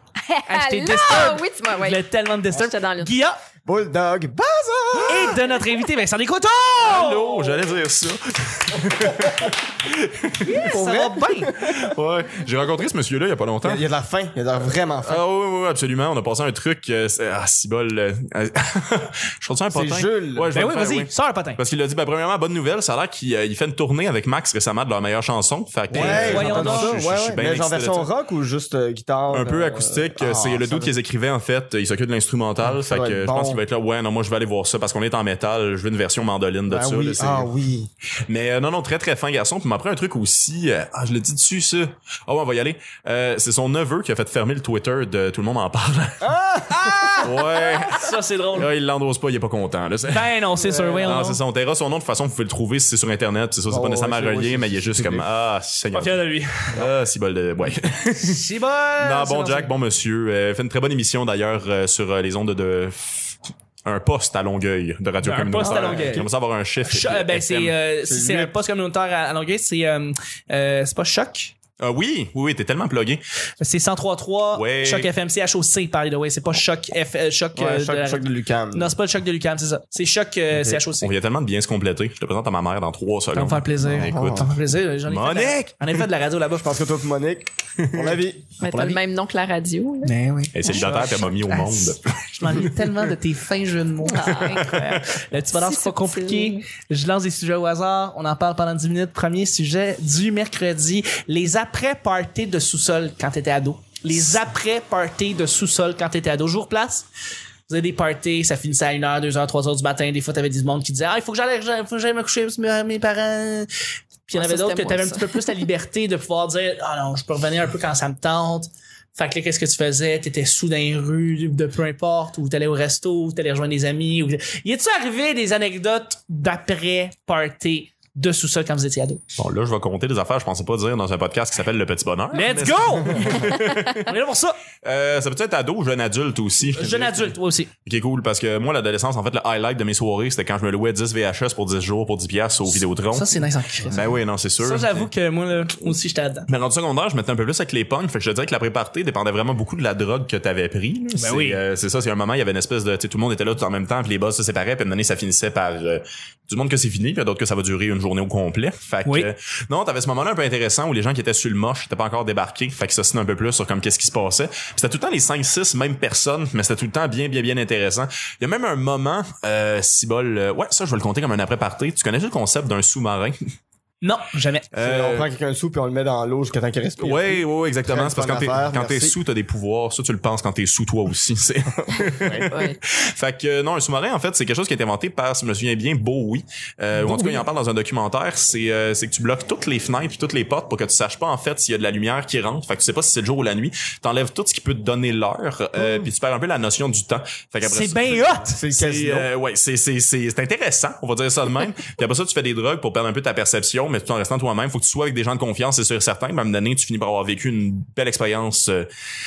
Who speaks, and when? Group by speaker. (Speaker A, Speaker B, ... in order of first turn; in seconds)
Speaker A: 0.2-3.1, 88.6-90.1, 94.0-95.0, 95.5-96.6, 114.3-115.5, 182.5-182.8
Speaker B: 0.5-3.4, 5.0-7.3, 10.4-11.5, 20.5-21.6, 25.9-27.0, 46.8-48.7, 50.1-51.4, 55.9-56.8, 58.2-59.7, 65.2-66.3, 66.8-71.5, 73.6-81.1, 83.3-86.8, 90.0-107.1, 107.7-113.7, 114.3-129.2, 132.3-134.6, 136.7-137.7, 142.7-146.5, 151.1-151.6, 174.0-174.7, 187.0-187.4, 197.6-198.6
Speaker C: 3.6-5.4, 10.6-11.8, 13.6-15.2, 19.7-20.5, 25.9-30.9, 32.7-33.6, 36.7-37.9, 46.2-47.3, 50.6-51.2, 53.7-55.2, 65.6-66.2, 68.0-68.5, 77.5-78.9, 83.9-84.5, 86.6-88.5, 174.8-179.1, 181.9-182.5, 195.8-196.1, 198.5-199.3
Speaker D: 6.8-10.6, 11.6-13.8, 15.0-28.1, 29.3-37.5, 38.3-46.3, 47.2-50.4, 51.0-56.2, 56.7-58.4, 59.0-67.8, 71.8-73.2, 74.5-75.1, 81.0-84.5, 85.0-86.0, 87.8-88.2, 90.5-92.7, 94.2-94.8, 129.4-134.1, 134.8-143.3, 143.9-145.1, 146.5-173.4, 174.7-175.3, 177.0-208.8